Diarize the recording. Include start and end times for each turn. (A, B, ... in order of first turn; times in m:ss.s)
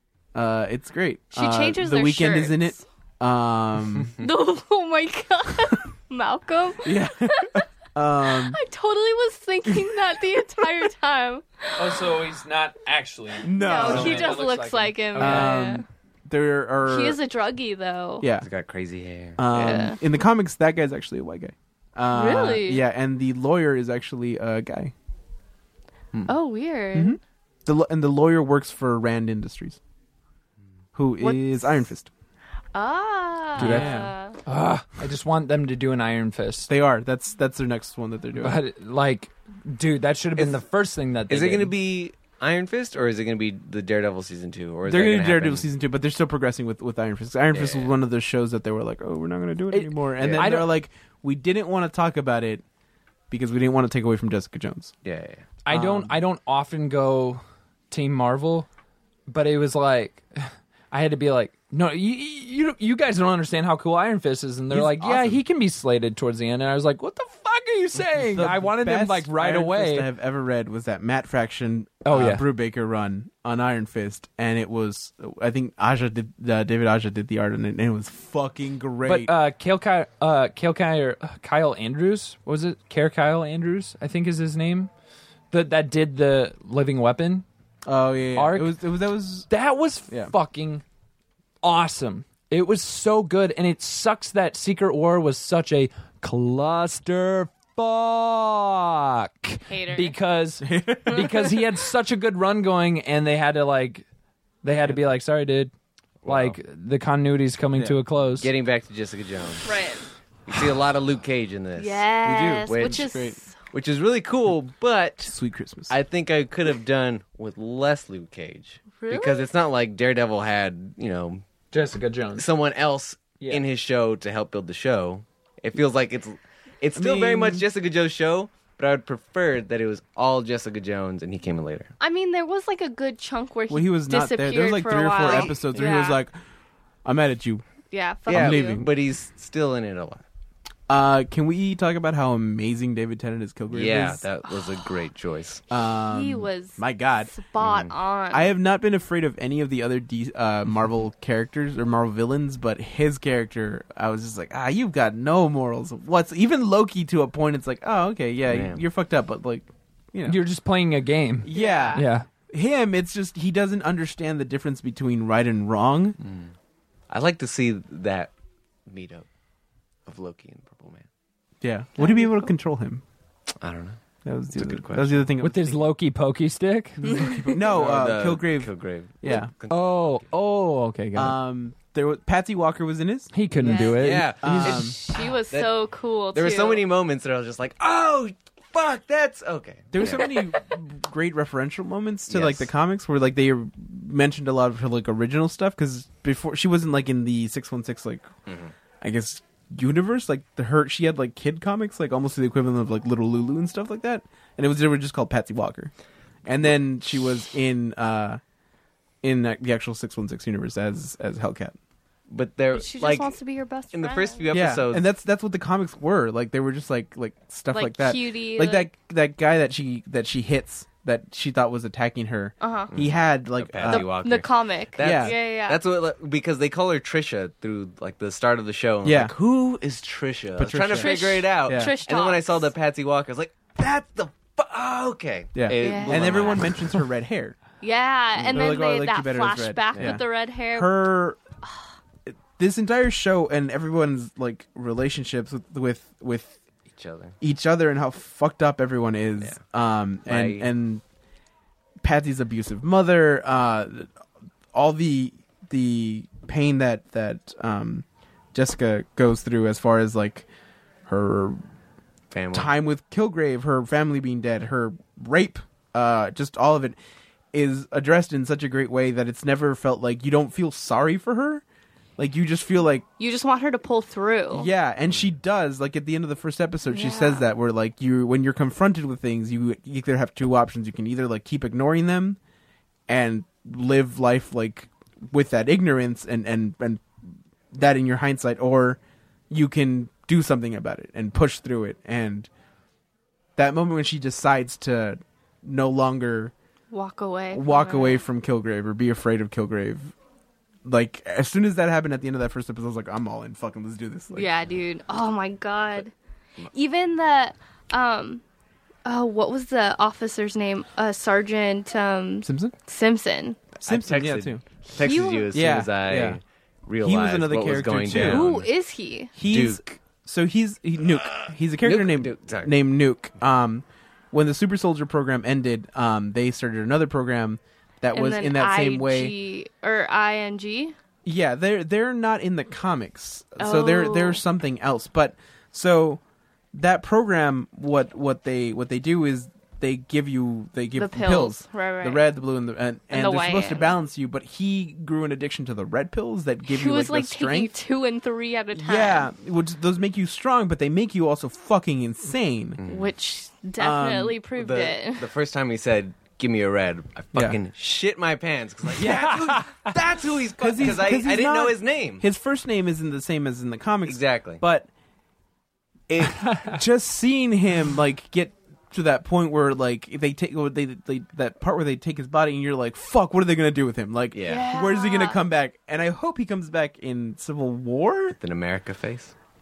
0:00.3-0:04.1 A
0:01.3-0:02.8 B
0:04.2-0:07.6 B
0:06.8-0:08.6 A
0:08.3-0:12.2 B
0:09.7-0:10.0 A
0:11.8-0:15.6 C
0:13.4-0:14.4 A
0:13.6-0:15.8 B
0:15.1-0:17.2 A
0:16.8-0:18.3 B
0:18.2-0:18.5 A
0:18.4-0:19.9 D
0:19.4-0:24.9 A
0:19.5-0:20.0 B
0:22.1-0:22.8 B
0:26.3-0:27.2 B
0:26.9-0:29.8 A
0:30.9-0:32.1 A
0:31.2-0:31.7 B
0:32.7-0:34.4 B
0:33.6-0:34.1 A
0:33.6-0:36.7 C
0:36.7-0:38.6 A
0:38.4-0:41.7 C
0:40.4-0:40.6 D
0:41.3-0:45.6 D
0:44.8-0:52.6 A
0:47.5-0:47.9 D
0:49.7-0:50.7 C
0:50.2-0:50.6 D
0:53.3-0:54.9 A
0:55.0-0:55.5 D
0:55.6-0:58.7 C
0:55.7-0:56.2 A
0:59.3-1:10.1 C
1:04.7-1:05.4 A
1:08.1-1:19.3 A
1:12.0-1:12.4 C
1:19.0-1:24.9 C
1:25.5-1:27.4 C
1:27.8-1:29.5 A
1:28.3-1:28.8 C
1:29.5-1:30.8 C
1:30.1-1:30.3 A
1:31.6-1:44.0 C
1:39.7-1:40.1 B
1:40.6-1:41.5 A
1:41.1-1:41.4 B
1:44.6-1:45.7 C
1:46.2-1:46.6 D
1:46.2-1:48.5 C
1:47.8-1:49.7 D
1:49.6-1:50.0 B
1:50.4-1:52.0 D
1:51.8-1:53.6 B
1:52.2-1:53.4 A
1:52.6-1:55.3 D
1:55.2-1:55.9 A
1:55.9-2:01.4 D
1:59.0-1:59.5 B
2:01.7-2:02.5 C
2:02.4-2:11.9 D
2:06.9-2:07.6 A
2:12.0-2:16.2 B
2:13.7-2:16.3 A
2:17.0-2:17.6 A
2:17.9-2:18.8 B
2:18.3-2:18.9 A
2:18.3-2:20.2 D
2:20.9-2:24.2 A
2:23.7-2:25.6 D
2:24.5-2:24.9 B
2:25.7-2:27.3 A
2:26.1-2:28.5 B
2:27.6-2:27.9 D
2:28.3-2:40.4 A
2:38.5-2:38.8 D
2:40.2-2:42.2 C
2:41.4-2:46.2 A
2:41.5-2:42.0 B
2:46.2-2:46.5 D
2:47.1-2:48.3 D
2:48.8-2:49.3 D
2:50.1-2:51.1 D
2:51.6-2:53.0 A
2:52.0-2:52.4 B
2:53.6-2:54.0 D
2:54.2-2:55.8 A
2:54.5-2:55.3 D
2:55.4-2:57.1 C
2:57.0-2:59.5 A
2:57.0-2:57.6 B
2:57.6-3:00.2 D
2:59.7-3:01.4 C
3:01.1-3:05.0 A
3:03.3-3:04.8 C
3:03.6-3:06.8 B
3:03.9-3:05.7 D
3:06.3-3:10.5 D
3:09.9-3:18.3 A
3:12.3-3:12.7 D
3:18.5-3:18.7 D
3:19.0-3:25.9 A
3:26.4-3:28.4 A
3:29.2-3:31.8 A
3:32.3-3:33.4 D
3:32.7-3:34.4 B
3:33.9-3:35.0 D
3:34.5-3:44.1 A
3:37.7-3:38.9 B
3:42.6-3:42.9 B
3:42.9-3:56.9 D
3:43.8-3:45.8 B
3:45.0-3:45.3 A
3:49.0-3:49.3 A
3:50.6-3:51.9 A
3:50.9-3:52.7 B
3:55.5-3:57.6 A
3:55.7-3:56.6 B
3:57.8-4:01.1 B
3:58.4-3:58.7 D
3:58.4-4:01.4 A
3:59.9-4:00.2 D
4:02.3-4:06.6 A
4:06.9-4:07.4 D
4:07.4-4:11.0 A
4:10.2-4:10.7 D
4:12.0-4:14.1 A
4:14.7-4:20.5 A
4:21.0-4:21.6 A
4:22.3-4:22.7 D
4:22.5-4:27.0 A
4:27.5-4:31.6 A
4:32.2-4:33.0 A
4:33.2-4:34.7 B
4:34.5-4:42.4 A
4:36.9-4:37.5 B
4:43.1-4:47.0 A
4:47.7-4:49.0 A
4:49.5-4:52.5 A
4:53.6-4:56.5 A
4:56.9-4:58.2 B
4:57.5-5:00.1 A
5:00.8-5:04.5 A
5:04.3-5:06.1 B
5:06.7-5:08.4 B
5:09.0-5:13.6 B
5:12.4-5:12.7 A
5:13.8-5:14.6 A
5:13.8-5:18.7 D
5:14.9-5:15.8 B
5:15.5-5:16.4 A
5:17.0-5:18.4 A
5:18.1-5:19.3 B
5:19.3-5:29.3 A
5:19.4-5:19.8 D
5:21.8-5:22.7 D
5:28.1-5:30.9 B
5:31.2-5:36.2 A
5:33.6-5:34.4 B
5:36.7-5:47.7 A
5:41.0-5:42.3 B
5:43.1-5:43.9 B
5:46.7-5:49.3 B
5:48.7-5:52.8 A
5:52.8-5:53.1 D
5:52.8-5:55.3 B
5:53.8-5:54.4 A
5:54.6-6:02.2 D
5:57.3-5:57.6 A
5:59.0-5:59.4 A
5:59.0-5:59.9 C
6:00.6-6:04.9 A
6:04.0-6:04.6 D
6:06.1-6:18.4 A
6:06.4-6:06.8 C
6:14.3-6:14.6 D
6:14.4-6:15.4 B
6:18.4-6:19.3 D